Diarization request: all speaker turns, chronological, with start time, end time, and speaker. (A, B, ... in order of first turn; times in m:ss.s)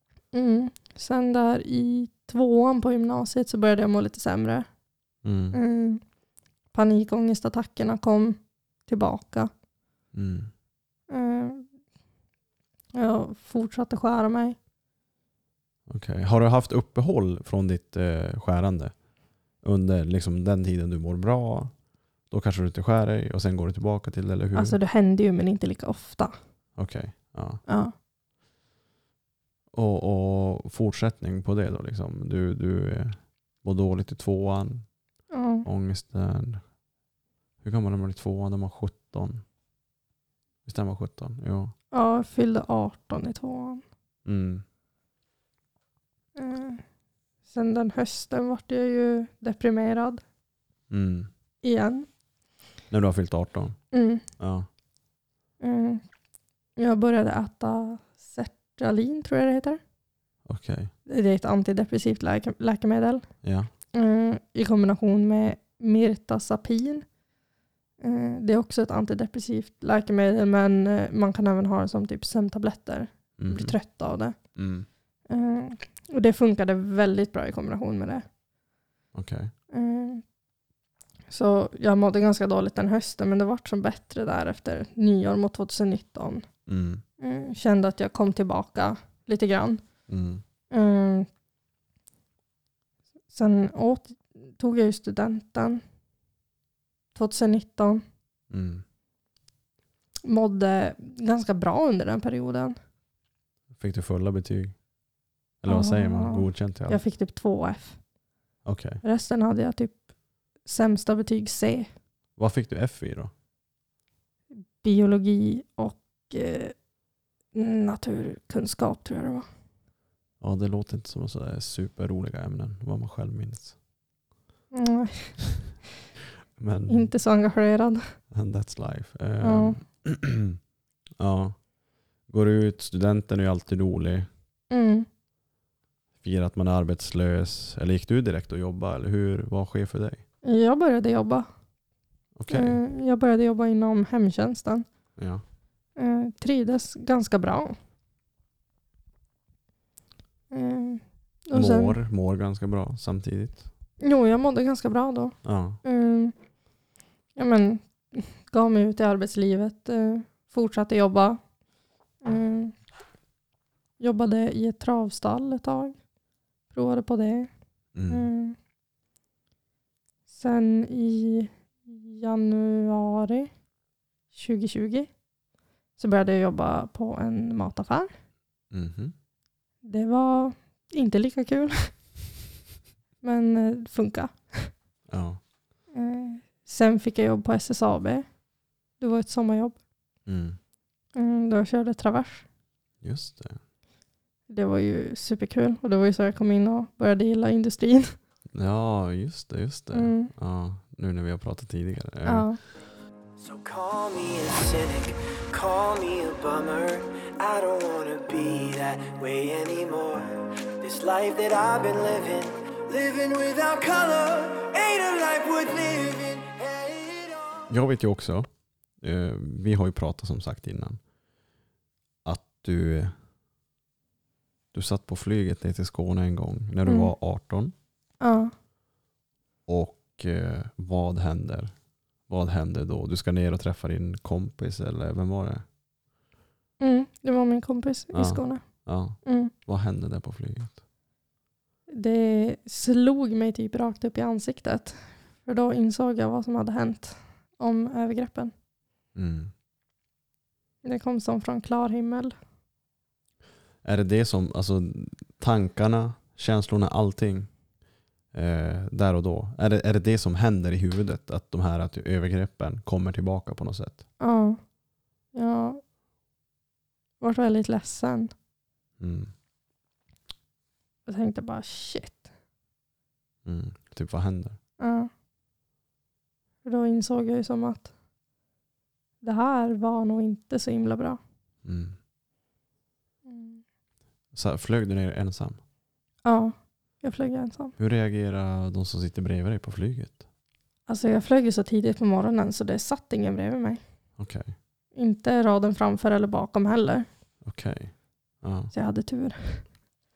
0:00.3-0:04.7 A
0:05.2-0:05.6 B
0:05.5-0:06.0 A
0:06.7-0:09.5 A
0:10.1-0:10.5 B
0:11.1-0:11.7 A
0:12.9-0:14.6 A
0:15.9-0:18.9 B
0:19.6-0:21.7 B
0:22.3-0:24.8 B
0:24.5-0:26.3 A
0:26.8-0:27.6 B
0:27.7-0:27.9 A
0:29.7-0:34.8 B
0:35.3-0:35.6 A
0:35.6-0:36.6 B
0:37.6-0:39.4 B
0:40.6-0:41.7 B
0:41.9-0:43.8 A
0:44.2-0:44.6 B
0:46.4-0:46.8 A
0:47.5-0:50.2 A
0:50.9-0:51.3 B
0:51.6-0:52.1 A
0:52.9-0:53.8 B
0:53.9-0:54.2 A
0:54.4-0:54.7 B
0:55.6-0:56.0 A
0:56.8-0:59.8 A
1:00.4-1:00.9 B
1:01.1-1:03.2 A
1:03.4-1:03.7 B
1:03.9-1:07.0 A
1:08.0-1:14.4 A
1:13.4-1:13.8 B
1:14.5-1:14.9 B
1:15.3-1:18.2 A
1:19.1-1:19.5 B
1:19.7-1:20.2 A
1:21.3-1:26.4 A
1:26.7-1:27.0 B
1:27.2-1:29.8 A
1:30.1-1:30.4 B
1:30.7-1:31.3 A
1:33.3-1:35.8 A
1:37.1-1:38.0 A
1:38.5-1:38.8 B
1:40.2-1:42.8 A
1:43.7-1:44.7 B
1:45.6-1:47.0 B
1:45.7-1:48.0 A
1:48.6-1:49.0 B
1:49.0-1:50.0 A
1:50.6-1:51.9 A
1:52.4-1:53.3 B
1:54.8-1:56.7 A
1:57.5-1:59.4 A
2:00.4-2:03.7 B
2:04.7-2:05.4 A
2:06.6-2:07.1 B
2:06.9-2:08.0 A
2:08.3-2:10.6 B
2:09.4-2:09.8 A
2:11.2-2:11.6 B
2:12.3-2:14.3 B
2:14.7-2:15.1 A
2:16.2-2:20.2 B
2:20.4-2:21.5 A
2:22.4-2:22.8 B
2:22.5-2:24.8 A
2:25.2-2:25.4 B
2:26.0-2:27.8 A
2:30.5-2:32.0 A
2:31.5-2:33.7 B
2:34.0-2:36.3 A
2:35.4-2:35.8 B
2:37.4-2:41.4 A
2:42.2-2:42.7 A
2:44.0-2:46.0 A
2:46.7-2:47.5 A
2:47.9-2:48.3 B
2:48.1-2:48.6 A
2:50.3-2:53.5 A
2:54.3-2:55.1 A
2:56.0-2:58.1 A
2:58.7-2:59.1 B
2:59.8-3:01.9 A
3:03.2-3:04.7 A
3:05.1-3:05.4 B
3:05.9-3:08.2 A
3:09.0-3:09.8 A
3:10.2-3:10.6 B
3:11.1-3:12.4 A
3:13.0-3:13.6 B
3:14.5-3:18.1 A
3:18.5-3:22.5 B
3:19.9-3:20.3 A
3:22.2-3:22.6 A
3:23.4-3:37.7 C
3:37.7-3:38.5 B
3:39.0-3:41.0 B
3:42.2-3:43.1 B
3:44.7-3:47.7 B
3:46.8-3:47.1 A
3:48.2-3:48.5 A
3:49.7-3:51.7 B
3:52.3-3:55.6 B
3:56.8-3:58.6 A
3:58.1-4:00.8 B
3:59.2-3:59.5 A
4:01.9-4:08.5 A
4:09.1-4:09.5 B
4:10.8-4:12.3 A
4:13.8-4:17.5 B
4:18.3-4:24.0 B
4:24.2-4:24.6 A
4:25.3-4:25.8 A
4:27.2-4:28.3 A
4:29.0-4:29.3 B
4:31.0-4:32.2 A
4:33.4-4:34.6 B
4:34.8-4:35.1 A
4:36.6-4:37.9 A
4:39.2-4:41.2 A
4:41.6-4:42.0 B
4:43.2-4:43.6 A
4:44.3-4:45.6 B
4:46.2-4:47.7 A
4:47.8-4:50.2 B
4:50.9-4:53.8 A
4:54.2-4:54.5 B
4:55.0-4:57.0 A
4:57.4-4:58.7 B
4:58.7-4:59.6 A